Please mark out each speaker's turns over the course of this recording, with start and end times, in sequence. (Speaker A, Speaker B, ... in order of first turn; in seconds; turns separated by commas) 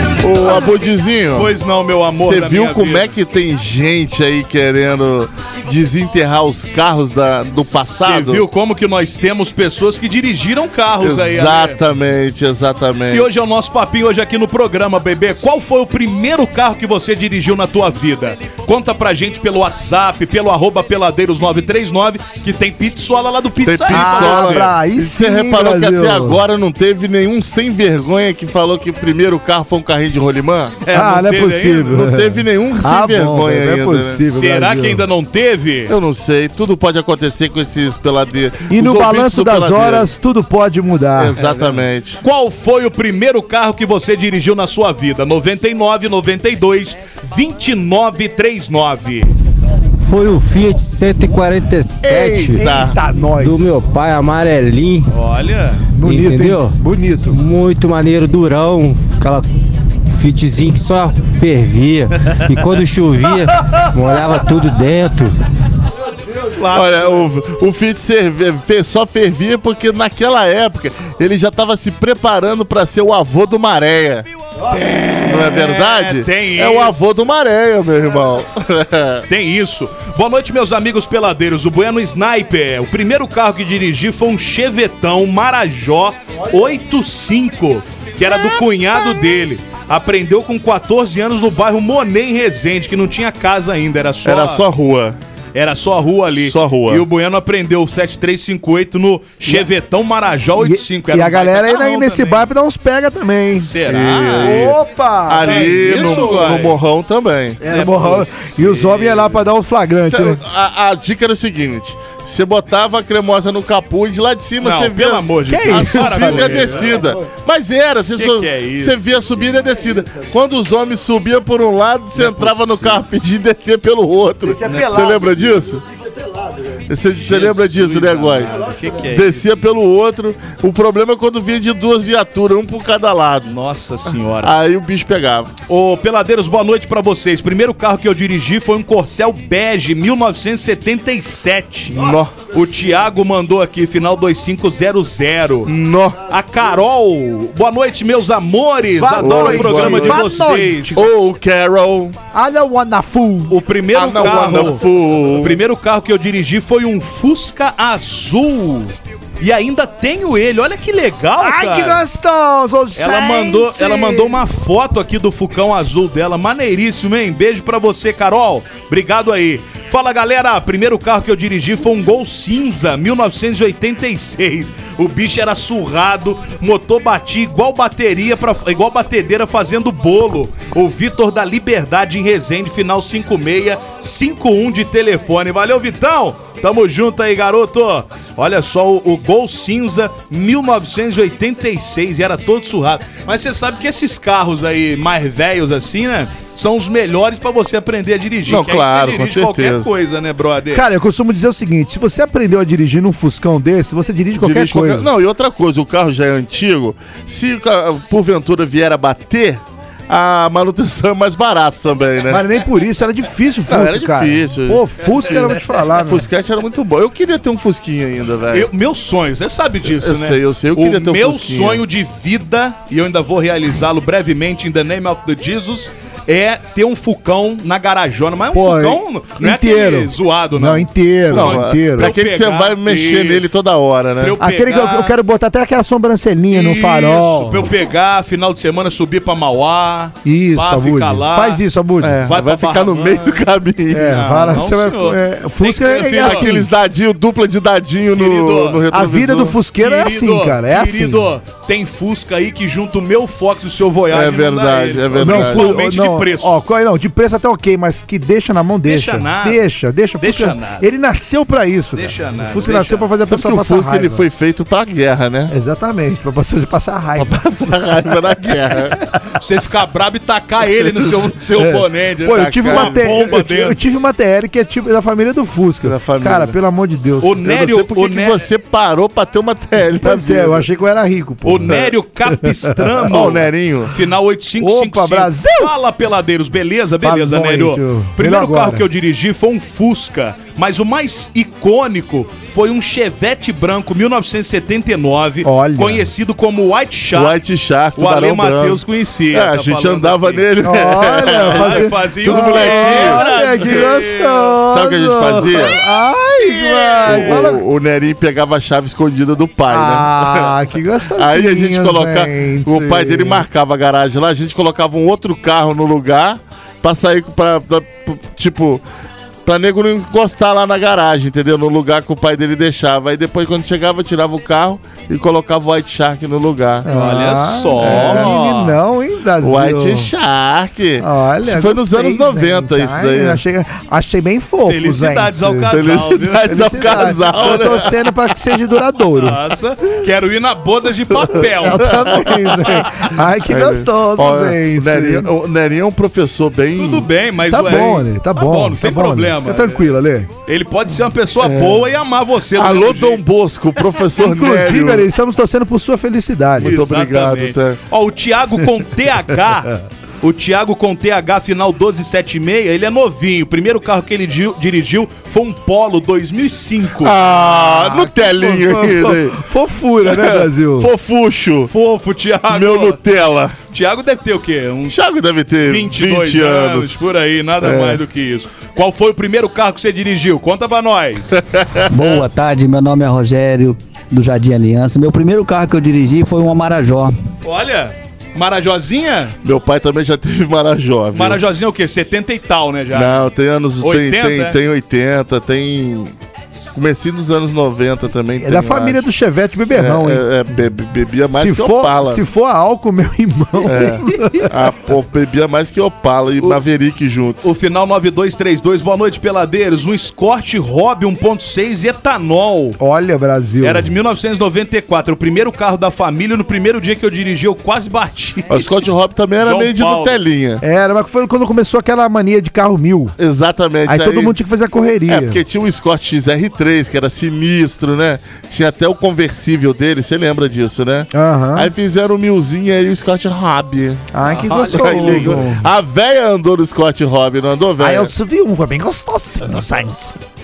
Speaker A: 0.2-1.5, Speaker B: 1.3-3.1, Speaker A: 2.1-8.4, Speaker B: 7.7-11.8, Speaker A: 11.0-13.3, Speaker B: 13.1-24.7, Speaker A: 23.6-30.8, Speaker C: 23.9-26.4, Speaker B: 30.8-32.1, Speaker C: 30.9-35.0, Speaker A: 31.9-34.3, Speaker B: 34.3-35.9, Speaker A: 35.9-40.1, Speaker C: 38.7-41.4, Speaker A: 41.2-42.2, Speaker B: 41.4-49.3, Speaker D: 50.0-52.7, Speaker A: 52.0-53.0, Speaker C: 52.2-53.7, Speaker D: 53.4-55.1, Speaker B: 55.1-55.8, Speaker C: 55.9-57.4, Speaker D: 56.0-59.5, Speaker D: 60.1-65.3, Speaker B: 66.5-67.3, Speaker A: 66.7-74.2, Speaker B: 74.7-77.2, Speaker A: 75.3-79.2, Speaker B: 79.3-94.6, Speaker A: 94.2-95.2, Speaker B: 95.5-102.5, Speaker A: 96.4-97.0, Speaker C: 100.5-103.7, Speaker B: 103.6-104.8, Speaker A: 103.8-107.6, Speaker C: 104.4-106.6, Speaker B: 105.4-106.8, Speaker C: 107.6-110.4, Speaker B: 107.7-109.4, Speaker A: 110.0-125.8, Speaker B: 114.6-117.0, Speaker C: 115.5-117.0, Speaker B: 118.2-119.1, Speaker B: 122.1-123.0, Speaker C: 124.4-125.6, Speaker B: 124.6-125.2, Speaker A: 126.9-133.5, Speaker B: 127.1-129.5, Speaker B: 133.5-134.5, Speaker A: 134.4-135.5, Speaker B: 135.7-145.7, Speaker A: 141.9-142.4, Speaker A: 145.7-146.2, Speaker B: 146.3-151.0, Speaker C: 148.9-151.1, Speaker A: 149.2-152.1, Speaker C: 152.3-153.6, Speaker B: 153.5-162.0, Speaker A: 153.9-155.6, Speaker C: 154.2-154.7, Speaker C: 161.4-164.4, Speaker B: 162.9-200.9, Speaker A: 198.4-199.9, Speaker C: 200.7-205.1, Speaker A: 204.4-212.4, Speaker C: 212.3-216.3, Speaker A: 213.7-218.7, Speaker B: 218.5-233.4, Speaker A: 219.8-221.8, Speaker C: 228.5-232.1, Speaker A: 231.3-234.4, Speaker B: 234.2-235.1, Speaker C: 234.4-237.7, Speaker B: 236.5-241.6, Speaker C: 240.2-242.2, Speaker A: 242.0-244.6, Speaker B: 242.2-243.4, Speaker C: 243.9-246.7, Speaker B: 244.0-246.5, Speaker A: 246.1-249.6, Speaker B: 248.1-248.8, Speaker C: 248.9-251.3, Speaker B: 249.8-256.5, Speaker A: 254.1-255.7, Speaker C: 255.2-264.2, Speaker B: 258.9-259.6, Speaker B: 260.2-260.8, Speaker B: 261.9-263.1, Speaker A: 263.3-265.5, Speaker C: 265.5-267.4, Speaker A: 267.2-269.0, Speaker B: 269.4-273.8, Speaker C: 271.6-277.5, Speaker A: 272.3-273.1, Speaker A: 275.8-276.5, Speaker B: 277.2-278.5, Speaker A: 277.4-280.6, Speaker C: 280.0-281.8, Speaker B: 281.4-297.4, Speaker A: 283.1-284.0, Speaker C: 284.6-285.7, Speaker C: 287.0-288.8, Speaker C: 295.4-296.1, Speaker A: 297.1-298.8, Speaker B: 297.9-300.4, Speaker A: 299.3-303.2, Speaker C: 300.6-307.6, Speaker B: 301.2-304.6, Speaker A: 304.7-305.7, Speaker B: 305.4-305.7, Speaker B: 306.4-307.5, Speaker A: 307.0-310.5, Speaker C: 309.7-313.4, Speaker A: 311.1-318.8, Speaker A: 319.4-326.9, Speaker C: 326.8-330.1, Speaker B: 326.9-328.8, Speaker A: 327.8-328.4, Speaker A: 329.4-333.4, Speaker C: 331.0-335.8, Speaker B: 334.6-337.8, Speaker A: 335.7-337.9, Speaker C: 336.4-339.4, Speaker B: 339.1-342.2, Speaker C: 341.6-345.3, Speaker A: 341.7-342.9, Speaker A: 343.4-347.1, Speaker B: 346.8-349.8, Speaker C: 347.5-350.3, Speaker B: 350.5-353.2, Speaker A: 351.4-351.8, Speaker A: 352.5-355.1, Speaker C: 354.2-356.8, Speaker A: 356.6-357.8, Speaker B: 356.6-367.1, Speaker A: 367.0-369.4, Speaker C: 367.3-370.9, Speaker A: 370.1-371.7, Speaker B: 371.7-373.0, Speaker A: 372.5-373.6, Speaker B: 373.7-375.0, Speaker A: 374.9-377.0, Speaker B: 375.6-381.4, Speaker A: 377.6-378.0, Speaker A: 381.5-382.2, Speaker E: 381.9-387.1, Speaker B: 387.4-389.3, Speaker A: 389.4-391.4, Speaker B: 391.1-393.2, Speaker A: 392.9-396.1, Speaker B: 393.8-394.6, Speaker A: 396.7-399.0, Speaker C: 398.4-400.2, Speaker A: 399.7-402.2, Speaker C: 401.3-404.5, Speaker A: 403.6-407.4, Speaker B: 407.4-412.8, Speaker C: 412.8-413.9, Speaker B: 413.6-418.7, Speaker A: 418.5-420.6, Speaker B: 419.4-420.2, Speaker C: 420.6-423.1, Speaker A: 423.2-424.4, Speaker C: 423.8-425.4, Speaker A: 425.1-434.0, Speaker C: 431.1-431.7, Speaker C: 434.1-435.7, Speaker B: 434.2-435.4, Speaker A: 434.6-438.1, Speaker C: 437.8-440.1